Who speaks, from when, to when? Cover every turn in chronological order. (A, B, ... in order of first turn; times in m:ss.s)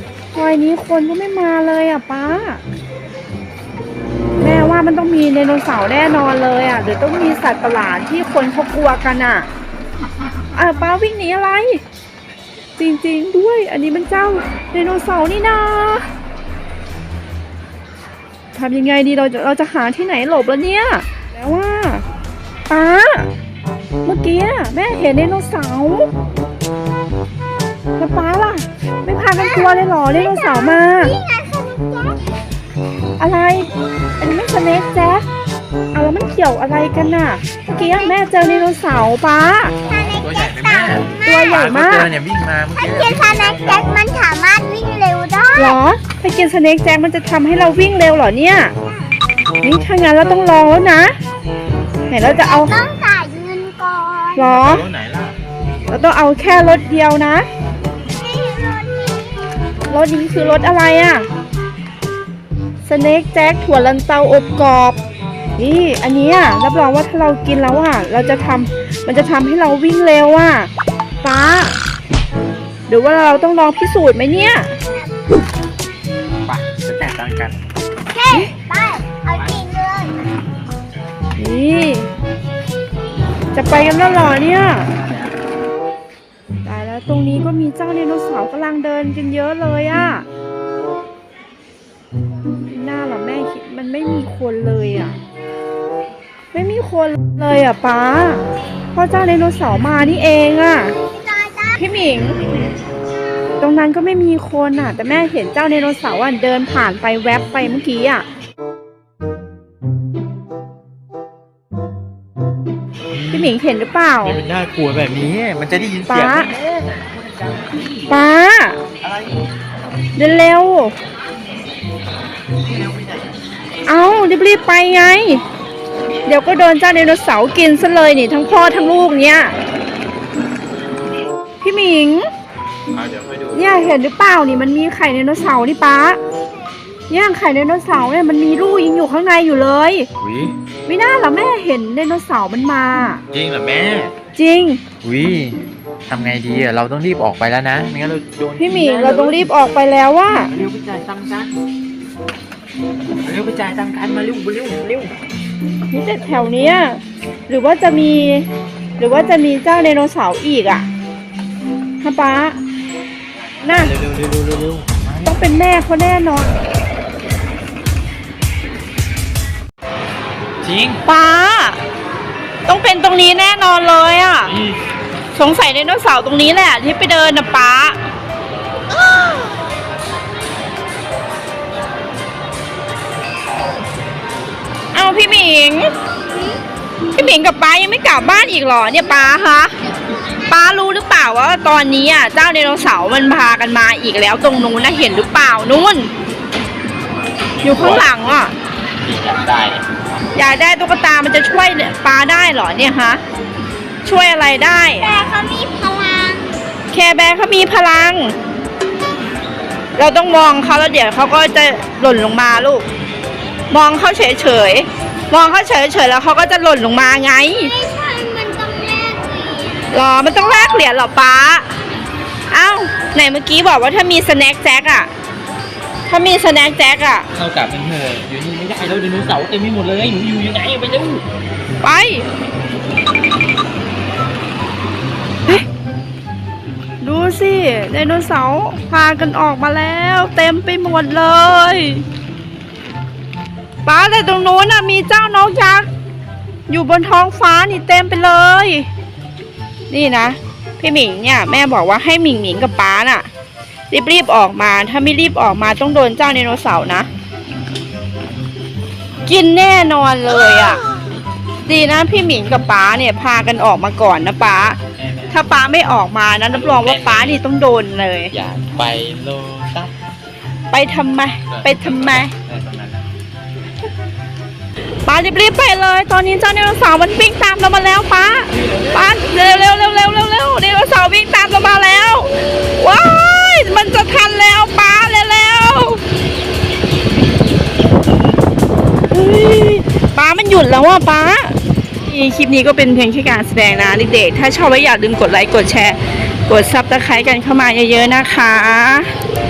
0:00.3-0:02.6 A
0:04.4-0:09.5 A
0:10.5-0:11.8 A
0:12.8-0:16.1 A
0:18.5-0:22.0 A
0:22.7-0:23.3 A
0:24.0-0:26.1 A
0:28.0-0:31.1 A
0:29.3-0:32.3 B
0:33.2-0:35.2 A
0:35.9-0:39.8 A
0:37.8-0:38.1 B
0:39.8-0:41.6 B
0:40.0-0:44.0 C
0:41.2-0:42.1 A
0:42.7-0:45.8 B
0:45.6-0:48.7 A
0:49.6-0:51.1 A
0:52.1-0:52.8 A
0:52.2-0:54.5 B
0:54.4-0:54.8 A
0:54.5-0:55.4 C
0:55.9-0:57.5 A
0:58.2-0:59.7 B
0:59.9-1:01.3 A
1:02.8-1:05.0 A
1:05.6-1:10.7 A
1:11.2-1:11.8 A
1:12.9-1:14.7 A
1:16.4-1:17.6 C
1:18.1-1:20.2 B
1:21.4-1:22.1 A
1:23.5-1:24.9 A
1:26.6-1:30.2 A
1:32.7-1:35.2 A
1:36.5-1:38.4 A
1:38.9-1:41.0 A
1:41.1-1:41.9 B
1:41.8-1:42.4 A
1:43.6-1:48.2 A
1:53.1-1:53.5 C
1:53.3-1:54.4 A
1:54.2-1:57.9 C
1:56.1-1:56.5 A
1:58.1-1:58.8 A
2:00.2-2:00.9 A
2:02.7-2:03.0 C
2:03.8-2:05.4 A
2:06.3-2:09.5 A
2:11.6-2:12.3 A
2:12.9-2:13.6 C
2:13.5-2:16.2 A
2:17.1-2:20.1 A
2:20.2-2:20.5 C
2:20.8-2:23.2 A
2:23.3-2:24.1 C
2:24.3-2:24.8 A
2:25.0-2:29.5 C
2:28.6-2:30.5 A
2:30.5-2:31.5 C
2:33.2-2:35.1 C
2:35.9-2:38.5 A
2:39.0-2:40.9 A
2:42.0-2:42.6 A
2:43.6-2:43.9 A
2:43.6-2:45.3 C
2:45.2-2:46.6 A
2:50.6-2:51.0 C
2:51.0-2:51.8 A
2:52.7-2:54.6 A
2:54.4-2:54.8 C
2:55.3-2:58.0 A
3:04.9-3:05.9 A
3:07.2-3:09.7 A
3:10.5-3:16.1 A
3:17.6-3:18.5 A
3:17.6-3:18.1 C
3:19.0-3:20.0 C
3:20.3-3:23.2 A
3:24.0-3:25.1 A
3:25.0-3:26.5 B
3:26.9-3:28.3 A
3:30.0-3:32.8 A
3:33.7-3:37.7 A
3:37.6-3:39.8 B
3:39.9-3:41.7 A
3:42.5-3:45.1 A
3:46.1-3:47.3 A
3:47.3-3:51.2 C
3:51.8-3:52.2 A
3:57.0-4:02.0 A
4:03.8-4:05.9 A
4:06.7-4:08.9 A
4:09.9-4:13.3 A
4:13.9-4:17.1 A
4:19.2-4:20.8 A
4:21.6-4:24.8 A
4:25.0-4:25.4 C
4:25.3-4:28.3 A
4:26.5-4:27.4 C
4:28.3-4:29.9 C
4:30.7-4:32.3 A
4:31.5-4:33.0 C
4:35.0-4:46.0 A
4:38.6-4:38.9 C
4:49.1-4:59.1 A